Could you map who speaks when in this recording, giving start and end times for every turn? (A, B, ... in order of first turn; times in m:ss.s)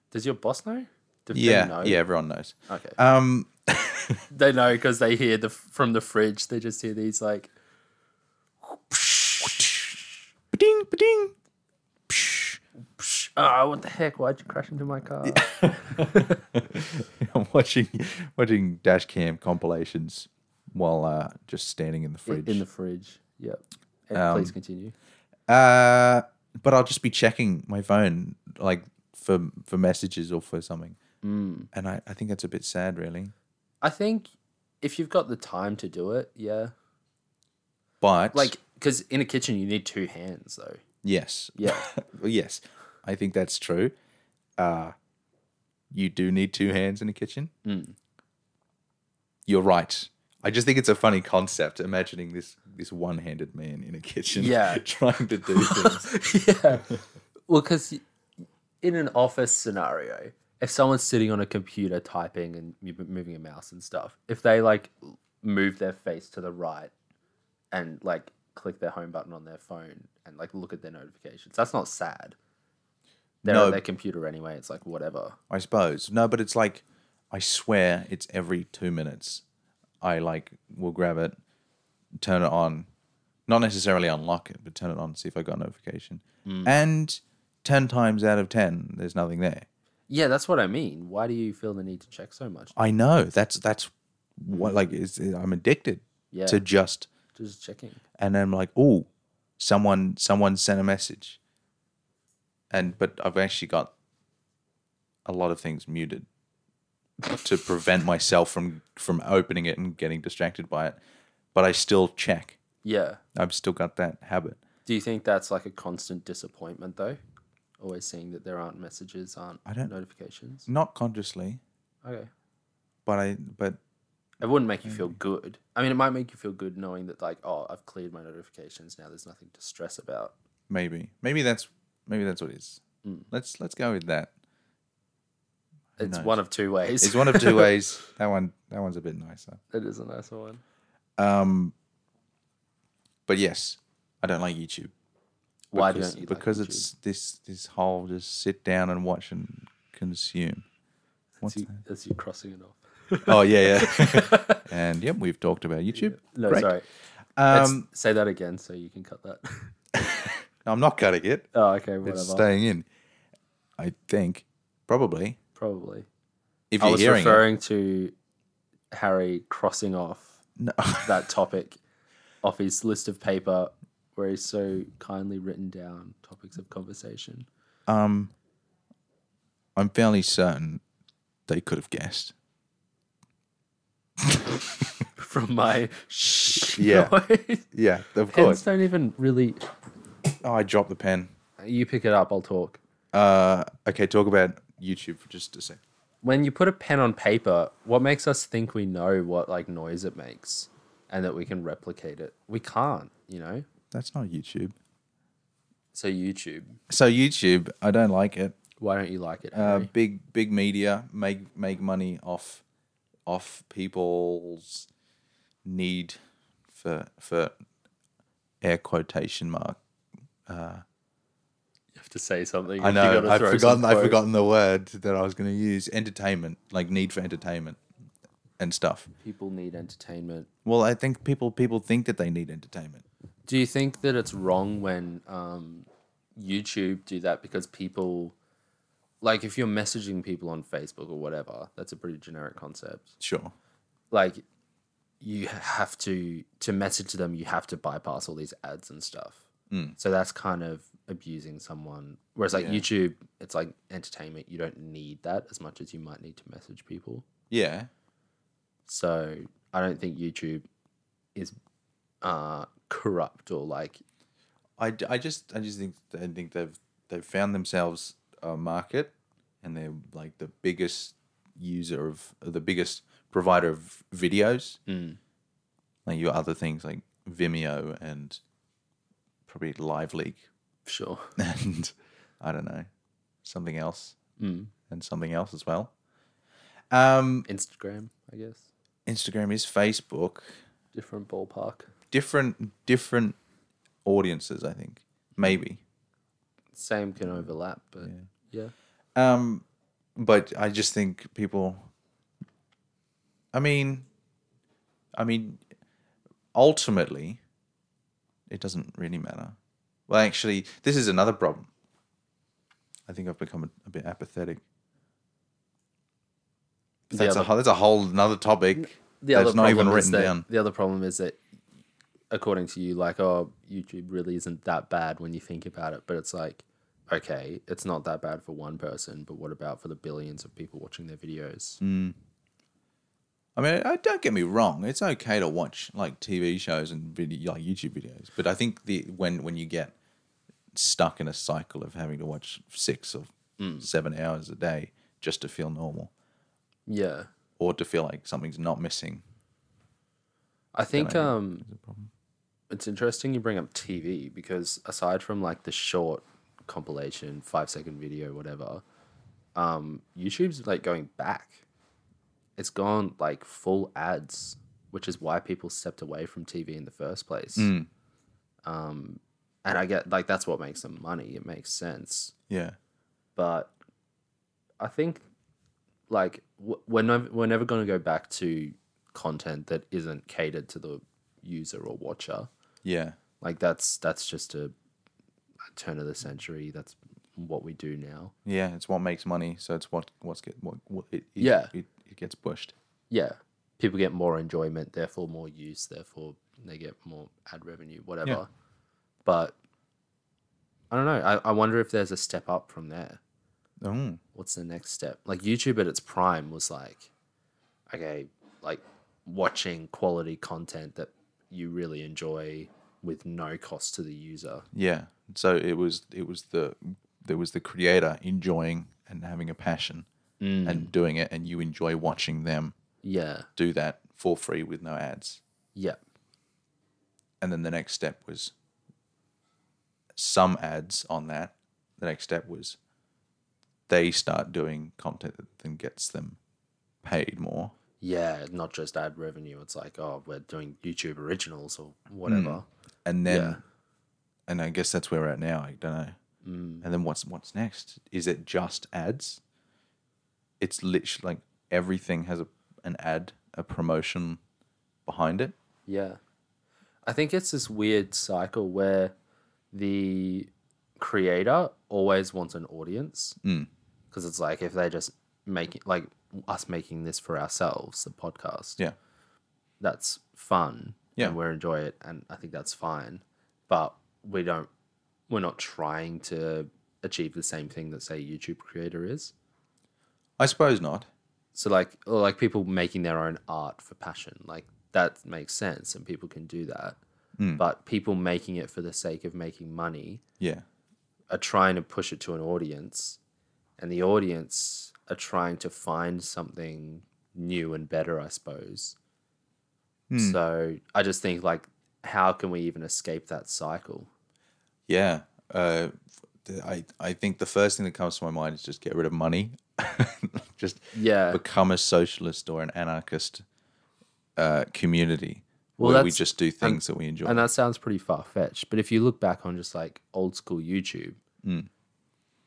0:00.1-0:02.0 A
0:01.3-0:04.2 B
0:02.7-0:03.0 A
0:04.3-0:07.5 A
0:08.9-0:09.2 A
0:09.4-0:09.9 B
0:10.5-0:11.3 B
0:12.1-0:12.6 B
0:13.0-0:16.5 A
0:15.2-0:22.6 B
0:22.3-0:25.0 A
0:24.2-0:24.6 B
0:25.5-0:31.0 B
0:31.2-0:31.7 A
0:31.7-0:33.3 B
0:33.8-0:34.3 A
0:34.8-0:36.7 A
0:38.0-0:38.5 B
0:38.3-0:40.8 A
0:41.0-0:43.9 B
0:41.6-0:41.9 A
0:44.6-0:45.0 B
0:45.9-0:47.5 B
0:47.6-0:48.0 A
0:49.5-0:56.1 B
0:54.3-0:54.8 A
0:55.5-0:58.0 A
0:58.8-1:06.9 A
1:07.7-1:12.4 A
1:13.4-1:13.8 B
1:13.4-1:15.4 A
1:15.5-1:19.4 B
1:20.0-1:21.4 B
1:22.2-1:22.9 B
1:23.5-1:29.7 B
1:26.4-1:26.7 A
1:30.1-1:32.7 A
1:32.7-1:37.1 B
1:34.5-1:34.8 A
1:36.3-1:36.6 A
1:37.3-1:38.0 A
1:38.2-1:39.1 B
1:39.6-1:41.4 B
1:42.7-1:43.9 B
1:45.3-1:46.3 B
1:47.4-1:51.0 B
1:51.5-1:52.6 B
1:52.8-1:53.2 A
1:53.4-1:54.6 B
1:54.9-1:57.2 A
1:57.8-2:00.7 A
1:59.7-1:59.9 B
2:00.7-2:01.6 B
2:02.0-2:02.3 A
2:03.1-2:03.8 B
2:04.4-2:10.3 A
2:04.8-2:05.2 B
2:10.7-2:14.3 B
2:13.0-2:13.3 A
2:16.0-2:16.4 B
2:16.0-2:17.8 A
2:17.0-2:19.6 B
2:19.7-2:20.6 A
2:21.2-2:21.7 B
2:23.3-2:24.9 B
2:25.7-2:26.9 A
2:25.8-2:30.6 B
2:31.4-2:34.7 A
2:31.4-2:31.7 B
2:33.2-2:36.7 B
2:35.9-2:36.9 A
2:37.4-2:37.9 B
2:37.5-2:39.7 A
2:39.9-2:41.5 B
2:41.5-2:42.5 A
2:42.0-2:42.9 B
2:43.8-2:45.4 B
2:45.6-2:46.1 A
2:46.7-2:47.4 B
2:46.8-2:48.1 A
2:48.9-2:50.4 A
2:50.6-2:51.3 B
2:51.0-2:51.8 A
2:52.4-2:57.5 A
2:57.9-2:58.3 B
2:59.8-3:00.8 B
3:01.5-3:02.3 B
3:04.3-3:04.8 B
3:05.2-3:07.7 A
3:06.7-3:07.1 B
3:07.7-3:08.6 B
3:08.3-3:09.7 A
3:10.4-3:11.3 B
3:11.6-3:12.8 A
3:13.1-3:15.8 B
3:16.2-3:23.7 A
3:23.9-3:24.8 B
3:25.9-3:26.8 A
3:26.9-3:28.6 B
3:28.8-3:29.9 A
3:29.5-3:32.6 B
3:33.3-3:34.9 B
3:35.6-3:36.2 B
3:36.7-3:37.5 B
3:38.6-3:39.8 B
3:40.5-3:40.8 B
3:42.0-3:44.2 A
3:42.8-3:47.8 B
3:48.6-3:49.1 B
3:49.2-3:50.5 A
3:50.6-3:53.0 B
3:53.5-3:58.4 A
3:59.2-4:03.1 A
4:03.2-4:03.5 B
4:04.1-4:04.4 A
4:05.2-4:09.4 A
4:09.7-4:10.0 B
4:10.0-4:17.3 A
4:12.5-4:12.8 B
4:17.5-4:17.9 B
4:18.9-4:20.6 A
4:22.2-4:24.0 A
4:24.8-4:34.8 B
4:34.9-4:35.2 A
4:36.1-4:38.4 B
4:39.5-4:40.4 B
4:40.9-4:41.4 A
4:41.4-4:42.9 B
4:43.4-4:44.2 B
4:44.4-4:44.7 A
4:44.9-4:45.9 B
4:46.9-4:47.5 B
4:47.5-4:48.7 A
4:49.1-4:50.6 B
4:50.9-4:51.9 A
4:52.1-4:53.4 B
4:54.0-4:55.8 B
4:55.4-4:55.6 A
4:56.8-4:58.7 A
4:57.2-4:58.2 B
4:59.2-4:59.6 B
5:00.2-5:01.9 B
5:03.5-5:04.1 B
5:05.2-5:05.6 B
5:06.5-5:07.4 B
5:08.5-5:09.6 B
5:10.1-5:11.7 B
5:13.1-5:14.6 B
5:17.1-5:17.5 A
5:17.1-5:20.5 B
5:18.8-5:21.4 A
5:22.3-5:31.8 A
5:31.8-5:32.2 B
5:33.6-5:39.9 B
5:40.7-5:46.1 B
5:43.6-5:43.9 A
5:46.9-5:47.3 A
5:47.6-5:49.2 B
5:50.7-5:51.7 A
5:50.9-5:52.1 B
5:52.7-5:58.8 A
5:59.6-6:01.6 A
6:02.6-6:07.7 A
6:07.6-6:07.9 B
6:08.6-6:12.3 A
6:12.5-6:12.8 B
6:13.4-6:13.7 A
6:14.8-6:15.2 A
6:16.1-6:22.5 A
6:22.8-6:23.2 B
6:23.4-6:24.7 A
6:25.7-6:28.3 A
6:28.4-6:32.7 B
6:31.4-6:31.7 A
6:33.1-6:38.5 A
6:39.2-6:39.6 A
6:40.9-6:43.2 A
6:43.8-6:44.2 B
6:44.3-6:47.1 A
6:47.9-6:54.7 A
6:54.7-7:00.1 B
7:00.4-7:00.9 A
7:00.7-7:02.8 B
7:03.0-7:03.5 A
7:03.6-7:05.4 B
7:07.4-7:08.5 B
7:10.2-7:12.8 B
7:13.9-7:16.4 B
7:17.0-7:17.7 B
7:18.0-7:22.6 A
7:22.3-7:23.6 B
7:23.3-7:23.6 A
7:24.5-7:26.2 B
7:26.4-7:26.8 A
7:26.8-7:29.4 B
7:30.6-7:34.4 B
7:35.1-7:35.5 B
7:35.9-7:36.2 A
7:37.0-7:39.1 A
7:39.7-7:43.4 A
7:43.4-7:43.7 B
7:44.1-7:48.8 A
7:49.8-7:54.7 A
7:55.3-7:59.3 A
8:00.4-8:01.1 B
8:01.6-8:07.0 A
8:07.6-8:10.2 A
8:10.4-8:10.6 B
8:11.3-8:13.2 A
8:13.8-8:19.0 A
8:20.1-8:20.4 B
8:20.2-8:24.1 A
8:24.9-8:33.4 B
8:30.9-8:31.4 A
8:34.4-8:37.4 B
8:35.8-8:41.2 A
8:41.4-8:41.7 B